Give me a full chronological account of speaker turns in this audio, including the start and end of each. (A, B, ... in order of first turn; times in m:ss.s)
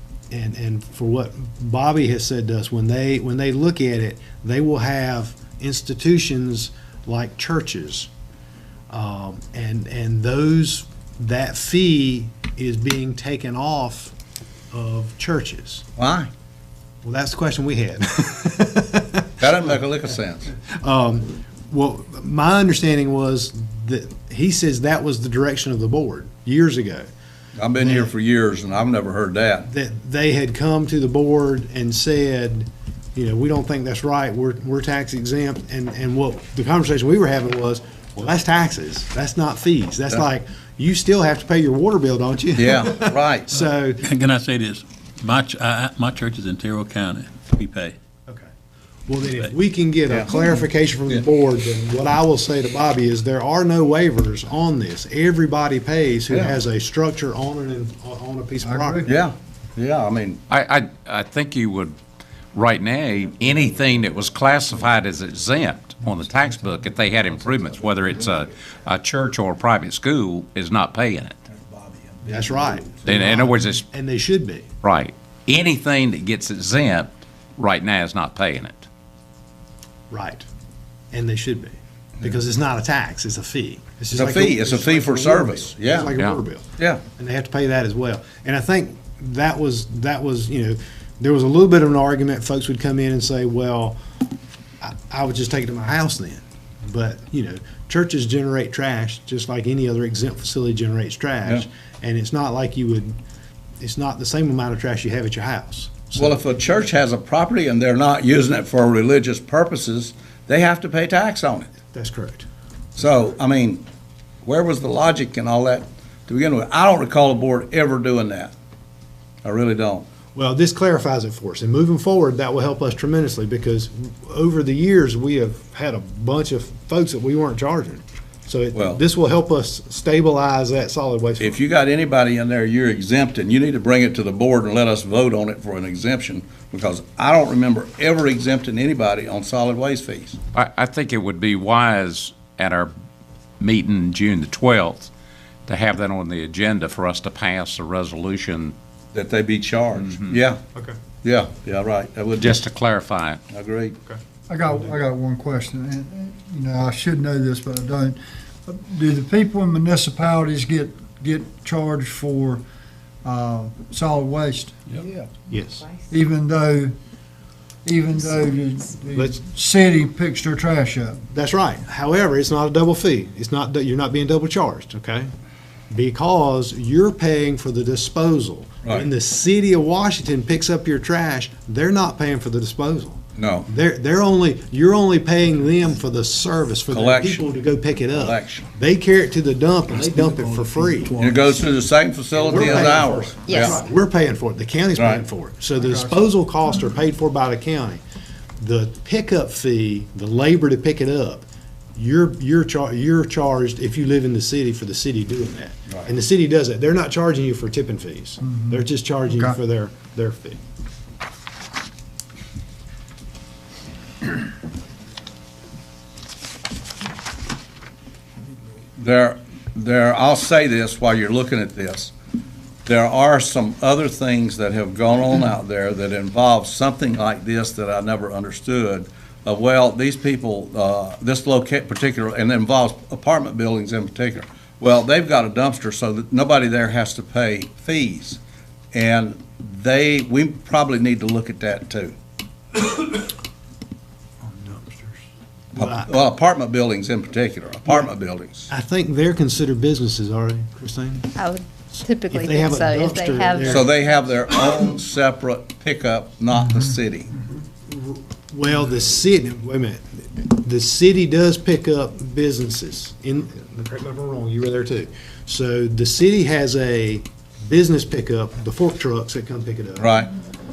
0:00.3-0:08.1 A
0:08.9-0:14.1 A
0:14.7-0:15.8 A
0:16.0-0:16.3 B
0:17.0-0:19.4 A
0:19.4-0:20.5 B
0:20.7-0:27.0 A
0:27.6-0:29.7 B
0:27.8-0:28.1 A
0:29.7-0:44.0 A
0:42.6-0:43.5 B
0:44.0-0:47.9 C
0:49.1-0:59.1 A
0:56.3-0:56.6 B
0:58.6-0:59.1 D
0:59.0-1:00.4 B
1:00.5-1:02.0 E
1:02.5-1:11.4 E
1:12.2-1:14.7 A
1:13.0-1:13.8 E
1:14.8-1:18.9 E
1:20.1-1:20.4 A
1:21.1-1:34.0 A
1:24.1-1:26.2 B
1:34.8-1:43.2 A
1:43.8-1:46.4 A
1:46.2-1:51.7 B
1:51.9-1:52.4 A
1:53.0-1:53.8 B
1:54.4-1:58.5 B
1:59.4-2:00.1 B
2:00.3-2:11.6 A
2:08.7-2:09.0 B
2:11.4-2:20.4 B
2:20.5-2:22.9 E
2:23.6-2:25.1 E
2:25.7-2:28.7 E
2:29.1-2:30.6 B
2:31.2-2:32.6 B
2:32.4-2:33.4 E
2:33.5-2:34.0 B
2:34.5-2:42.6 D
2:34.7-2:35.0 A
2:43.2-2:44.7 D
2:45.5-2:45.8 A
2:46.1-2:46.9 D
2:47.8-2:51.2 D
2:49.1-2:49.4 A
2:51.3-2:55.3 A
2:55.9-3:11.2 A
3:03.4-3:03.7 B
3:06.9-3:07.4 B
3:08.1-3:08.7 B
3:10.0-3:11.6 D
3:11.2-3:13.8 B
3:12.3-3:18.0 A
3:13.4-3:13.8 F
3:15.0-3:15.2 B
3:15.8-3:16.2 D
3:18.6-3:30.6 A
3:28.4-3:29.6 D
3:39.0-3:42.1 B
3:42.8-3:58.4 B
3:58.9-4:02.1 B
4:04.4-4:05.2 A
4:05.7-4:08.7 B
4:05.7-4:06.1 A
4:08.7-4:11.4 A
4:11.4-4:13.9 F
4:11.9-4:13.9 A
4:13.7-4:17.3 B
4:17.8-4:30.1 A
4:30.0-4:30.3 B